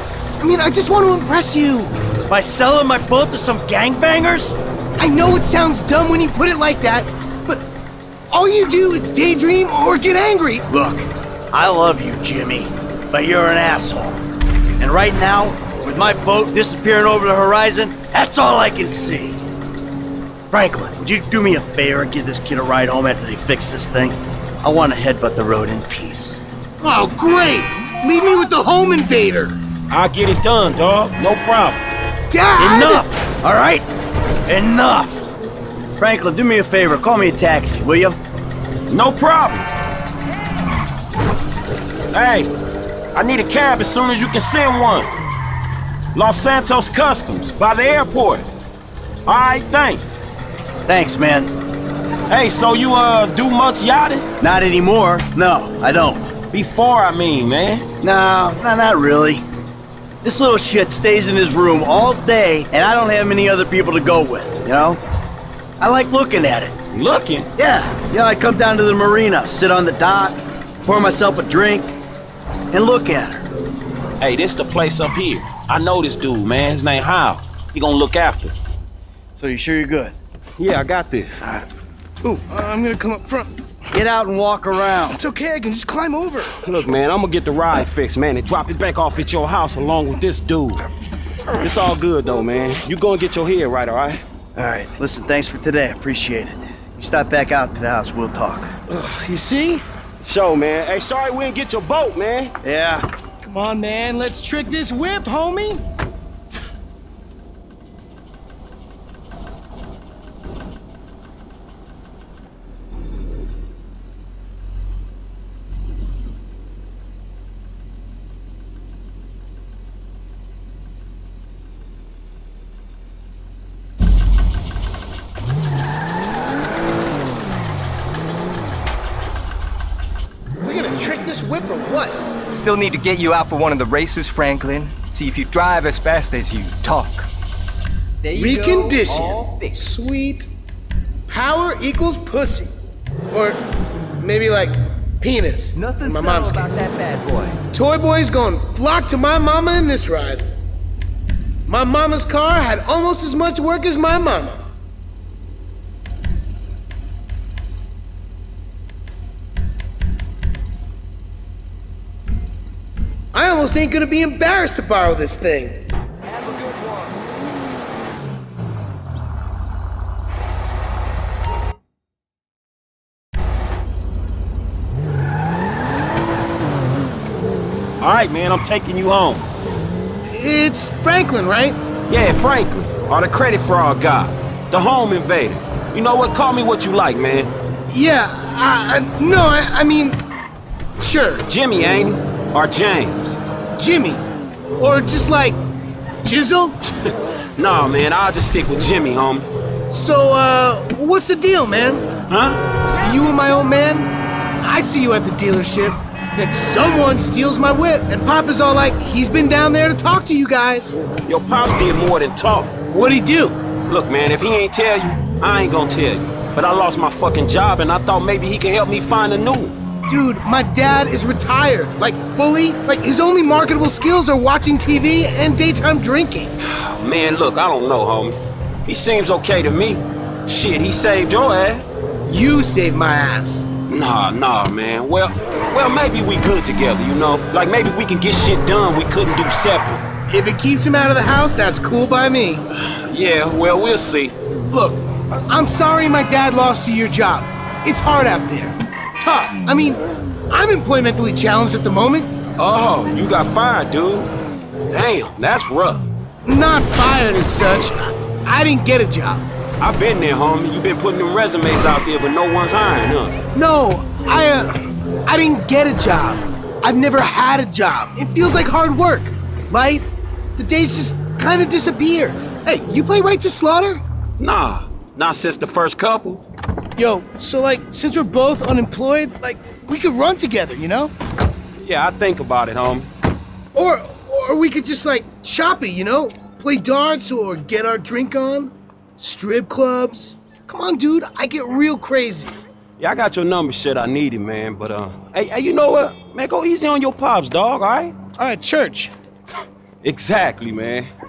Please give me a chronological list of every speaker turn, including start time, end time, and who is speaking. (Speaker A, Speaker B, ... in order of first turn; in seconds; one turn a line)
Speaker A: 0.4-1.9
Speaker B: 2.3-4.5
Speaker A: 5.0-7.6
Speaker A: 8.3-10.6
Speaker B: 10.7-14.2
Speaker B: 14.8-19.4
Speaker B: 20.5-26.4
Speaker A: 26.8-29.6
Speaker C: 29.9-31.8
Speaker A: 32.3-33.0
Speaker C: 32.6-33.0
Speaker B: 32.6-33.9
Speaker B: 34.5-35.3
Speaker B: 36.0-38.2
Speaker C: 38.9-39.7
Speaker C: 42.1-42.5
Speaker C: 43.1-45.1
Speaker C: 46.1-48.5
Speaker C: 49.2-50.2
Speaker B: 50.9-51.5
Speaker C: 52.3-54.3
Speaker B: 54.4-56.3
Speaker C: 56.5-57.9
Speaker B: 58.0-59.4
Speaker B: 60.2-65.0
Speaker B: 65.8-66.7
Speaker C: 66.9-67.5
Speaker B: 67.5-71.9
Speaker B: 72.7-73.5
Speaker C: 74.2-78.5
Speaker B: 79.4-80.2
Speaker C: 80.6-81.5
Speaker B: 81.4-81.7
Speaker A: 82.2-83.5
Speaker B: 83.9-85.2
Speaker A: 85.1-86.5
Speaker C: 86.6-90.8
Speaker C: 91.6-94.2
Speaker B: 94.5-98.7
Speaker A: 98.9-99.8
Speaker C: 100.2-102.5
Speaker B: 102.6-103.1
Speaker A: 103.4-105.8
Speaker A: 130.6-132.1
Speaker D: 132.5-137.3
Speaker D: 138.3-139.7
Speaker A: 138.3-140.5
Speaker A: 141.3-142.7
Speaker A: 143.3-143.6
Speaker A: 144.2-146.8
Speaker D: 145.8-147.6
Speaker A: 147.7-150.4
Speaker A: 151.7-154.6
Speaker A: 163.3-165.8
Speaker D: 166.3-167.1
Speaker C: 178.0-179.5
Speaker A: 180.3-181.8
Speaker C: 182.1-187.5
Speaker A: 187.9-190.2
Speaker A: 191.0-191.4
Speaker C: 191.5-193.4
Speaker A: 193.7-194.2
Speaker A: 194.8-195.6
Speaker A: 196.2-196.8
Speaker C: 197.0-199.5
Speaker A: 199.9-202.0
Speaker C: 202.3-202.6
Speaker A: 203.0-204.1
Speaker A: 204.6-210.9
Speaker C: 211.2-212.7
Speaker A: 212.9-213.6
Speaker C: 213.9-219.7
Speaker A: 220.1-226.5
Speaker C: 226.7-231.9
Speaker A: 232.2-233.7
Speaker C: 233.9-240.0
Speaker A: 240.3-242.6
Speaker C: 242.8-244.3
Speaker A: 244.7-252.3
Speaker C: 252.6-254.3
Speaker C: 254.9-256.1
Speaker A: 256.4-259.4
Speaker C: 259.8-263.3
Speaker A: 263.5-274.0
Speaker C: 274.4-276.4
Speaker A: 276.9-281.1
Speaker C: 281.8-283.1
Speaker A: 283.7-292.6
Speaker C: 293.0-298.1
Speaker A: 298.4-299.1
Speaker C: 300.0-301.1